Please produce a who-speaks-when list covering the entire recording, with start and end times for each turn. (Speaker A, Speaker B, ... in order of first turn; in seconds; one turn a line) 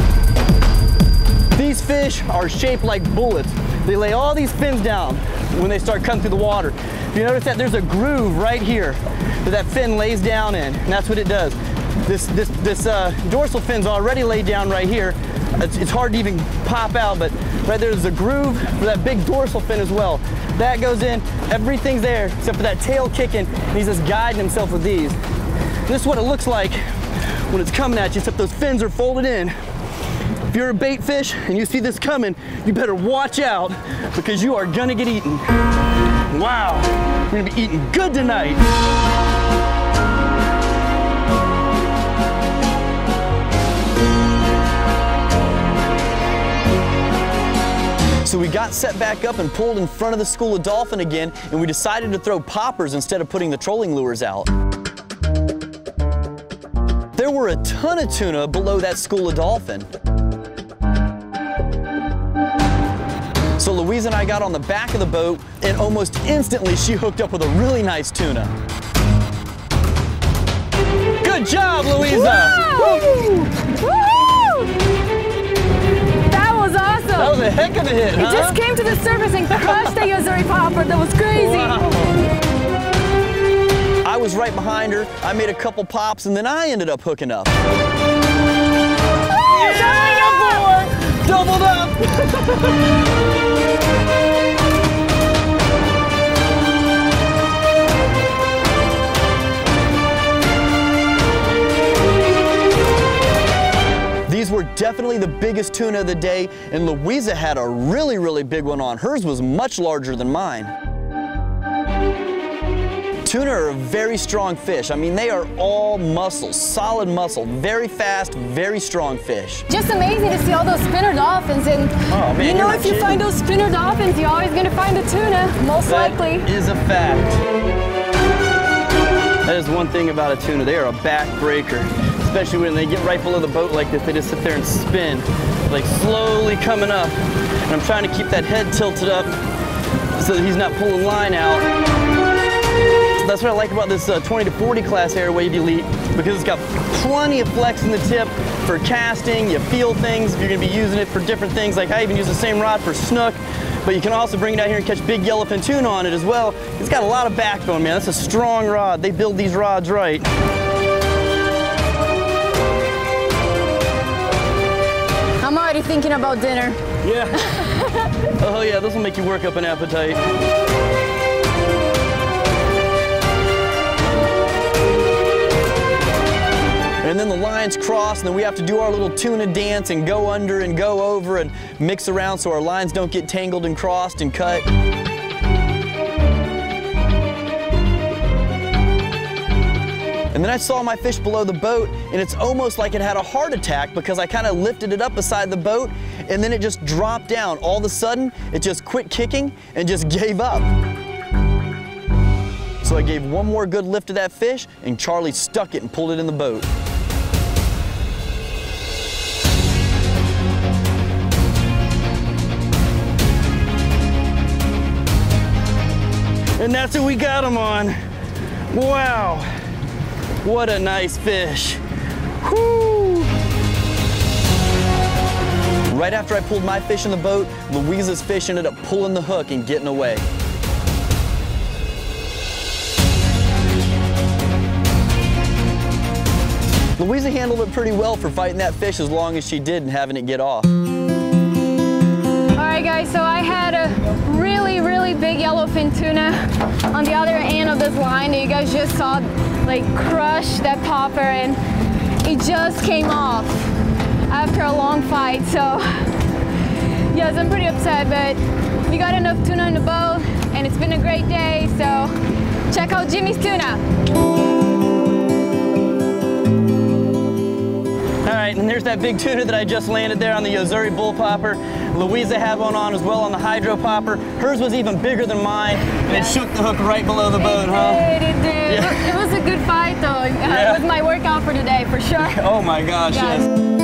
Speaker A: 1.5-25.2
Speaker A: 25.9-29.6
Speaker A: 30.5-35.4
Speaker A: 36.3-38.6
Speaker A: 48.2-54.5
Speaker A: 57.1-59.9
Speaker A: 63.6-68.5
Speaker A: 71.2-73.4
Speaker B: 72.0-74.7
Speaker B: 76.3-77.4
Speaker A: 77.2-78.6
Speaker B: 78.1-81.9
Speaker A: 79.5-80.0
Speaker A: 81.3-82.2
Speaker A: 84.0-87.5
Speaker A: 89.4-92.7
Speaker B: 89.5-90.6
Speaker A: 104.3-110.7
Speaker A: 113.2-119.7
Speaker B: 119.7-126.5
Speaker A: 122.1-123.2
Speaker A: 125.9-127.4
Speaker A: 129.4-139.4
Speaker A: 140.1-141.6
Speaker A: 143.2-160.3
Speaker B: 165.4-166.8
Speaker A: 167.0-167.4
Speaker B: 167.4-168.1
Speaker A: 168.3-170.2
Speaker A: 177.0-184.6
Speaker A: 190.3-200.7
Speaker A: 202.8-206.7
Speaker A: 216.6-218.0
Speaker A: 218.7-219.5
Speaker A: 220.4-221.8
Speaker A: 222.4-223.3
Speaker A: 225.9-230.2
Speaker A: 237.0-240.7
Speaker B: 242.6-246.4
Speaker B: 246.9-251.6
Speaker B: 252.2-253.7
Speaker B: 254.3-256.1
Speaker B: 257.1-262.1
Speaker B: 262.7-263.8
Speaker A: 268.2-278.1
Speaker B: 276.1-276.4
Speaker B: 277.4-282.4
Speaker A: 278.6-279.2
Speaker A: 280.5-280.9
Speaker A: 282.2-283.5
Speaker B: 283.1-283.5